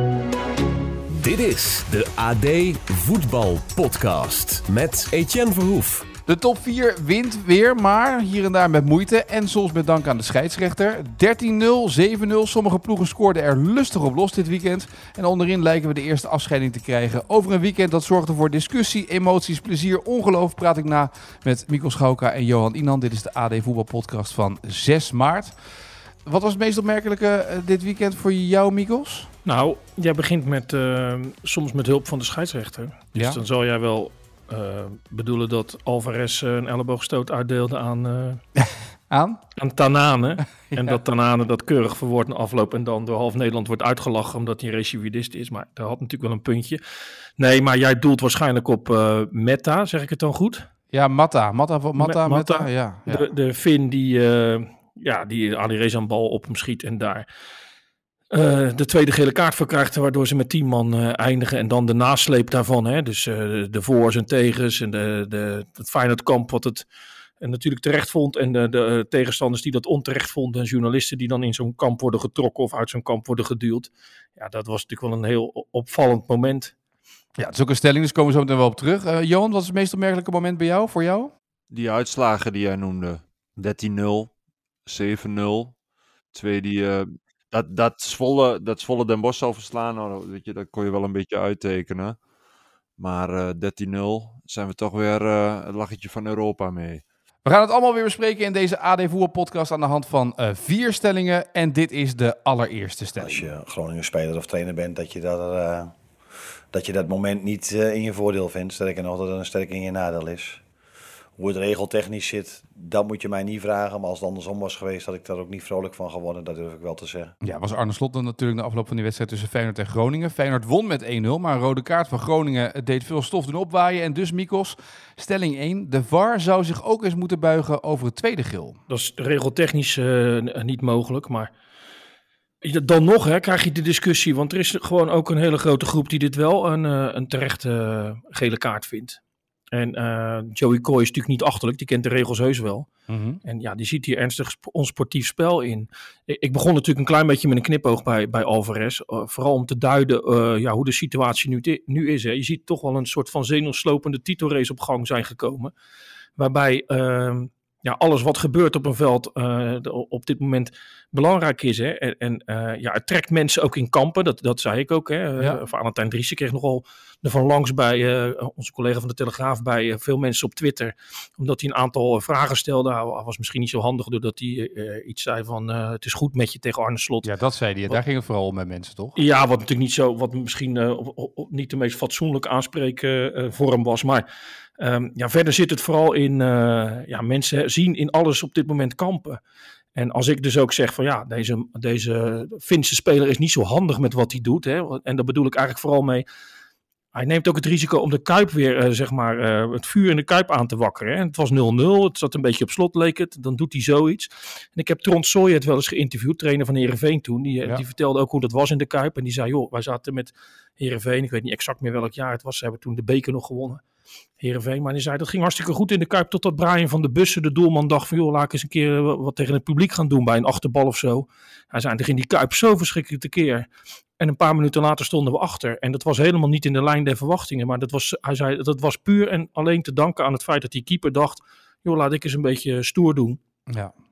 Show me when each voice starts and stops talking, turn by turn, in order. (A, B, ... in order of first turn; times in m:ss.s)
0:01.2-0:06.1 A
0:06.3-0:25.6 B
0:26.2-0:29.3 B
0:29.4-0:38.4 C
0:33.1-0:33.4 B
0:38.6-0:39.4 B
0:39.6-0:46.8 C
0:40.7-0:41.0 B
0:47.4-0:50.7 C
0:50.9-0:53.3 B
0:52.0-0:57.2 C
0:58.3-1:06.8 C
1:07.4-1:16.7 C
1:17.4-1:21.3 B
1:21.7-1:24.3 D
1:24.8-1:25.7 D
1:26.3-1:32.2 D
1:33.0-1:37.0 D
1:37.4-1:43.5 B
1:43.2-1:46.0 E
1:46.7-1:50.6 E
1:51.4-1:57.3 E
1:57.4-2:08.8 B
2:08.9-2:11.5 C
2:12.6-2:19.2 C
2:19.7-2:22.9 C
2:23.1-2:23.4 B
2:23.4-2:35.7 C
2:36.4-2:57.3 C
2:57.2-2:59.2 B
2:59.2-3:04.2 C
3:04.8-3:09.4 C
3:09.9-3:16.2 C
3:17.1-3:33.8 C
3:34.4-3:43.7 C
3:44.2-3:53.4 C
3:53.7-3:53.9 B